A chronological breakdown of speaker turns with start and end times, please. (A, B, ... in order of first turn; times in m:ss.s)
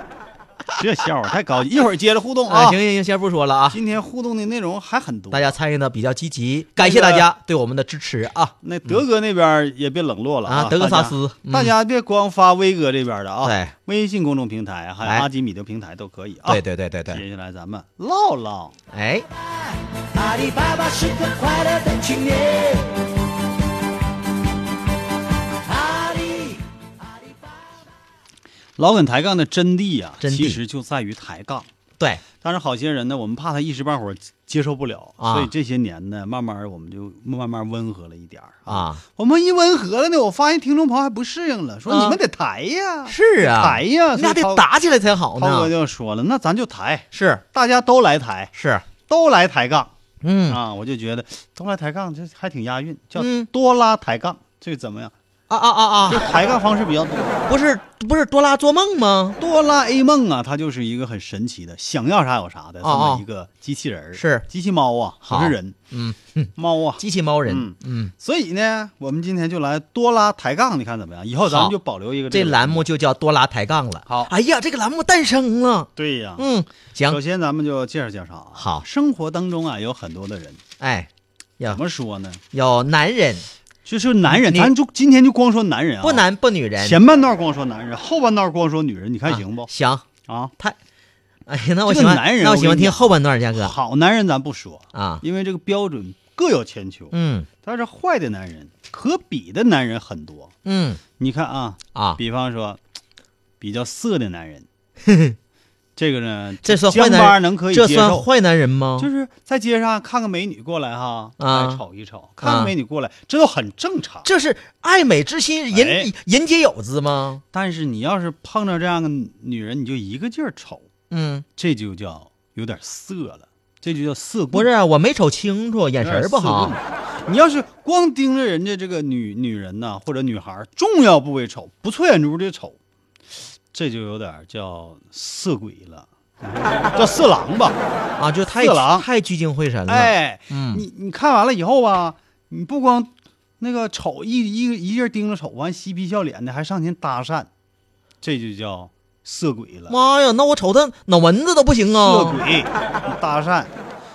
0:00.7-0:02.8 A
0:02.5-0:03.8 B
0:03.7-0:05.6 A
0:05.3-0:08.5 B
0:06.8-0:07.3 A
0:08.6-0:18.8 A
0:10.5-0:11.7 B
0:13.4-0:13.7 B
0:16.5-0:17.2 B
0:18.9-0:19.3 B
0:20.2-0:22.9 C
0:25.9-0:26.5 C
0:28.8-0:31.7 A
0:30.2-0:30.6 B
0:32.4-0:44.6 A
0:35.2-0:35.5 B
0:38.7-0:39.0 B
0:41.9-0:42.2 B
0:43.1-0:45.7 B
0:45.4-0:48.5 A
0:47.1-0:47.4 B
0:48.5-0:48.9 B
0:49.0-0:49.9 A
0:50.2-0:50.6 B
0:50.5-0:55.1 A
0:53.2-0:53.5 B
0:55.5-0:56.2 B
0:56.1-0:57.4 A
0:57.5-0:59.4 B
0:59.4-1:05.8 A
1:02.8-1:03.2 B
1:04.2-1:04.4 B
1:05.2-1:08.1 B
1:06.6-1:12.9 A
1:11.5-1:11.8 B
1:12.3-1:17.2 B
1:14.0-1:14.3 A
1:16.0-1:16.5 A
1:17.1-1:20.6 A
1:18.6-1:18.8 B
1:20.8-1:21.8 B
1:21.7-1:22.4 A
1:22.5-1:23.5 B
1:23.9-1:26.2 A
1:24.3-1:24.7 B
1:26.0-1:27.0 B
1:26.8-1:29.7 A
1:29.3-1:30.0 B
1:30.3-1:30.5 A
1:31.5-1:33.8 B
1:31.9-1:40.5 A
1:34.9-1:35.2 B
1:37.1-1:37.5 B
1:40.6-1:41.0 B
1:41.2-1:42.8 A
1:41.9-1:42.2 B
1:43.6-1:44.7 A
1:45.0-1:45.4 B
1:46.0-1:48.3 A
1:46.6-1:49.1 B
1:49.0-1:54.3 A
1:51.4-1:51.8 B
1:52.4-1:52.7 B
1:54.2-1:57.4 B
1:55.7-1:56.1 A
1:57.5-2:00.9 A
2:01.1-2:01.5 B
2:01.6-2:04.7 A
2:04.5-2:06.8 B
2:06.0-2:12.8 A
2:13.7-2:17.8 A
2:18.2-2:20.8 B
2:18.5-2:19.1 A
2:19.9-2:27.5 A
2:28.2-2:29.9 A
2:29.9-2:32.4 B
2:32.0-2:33.7 A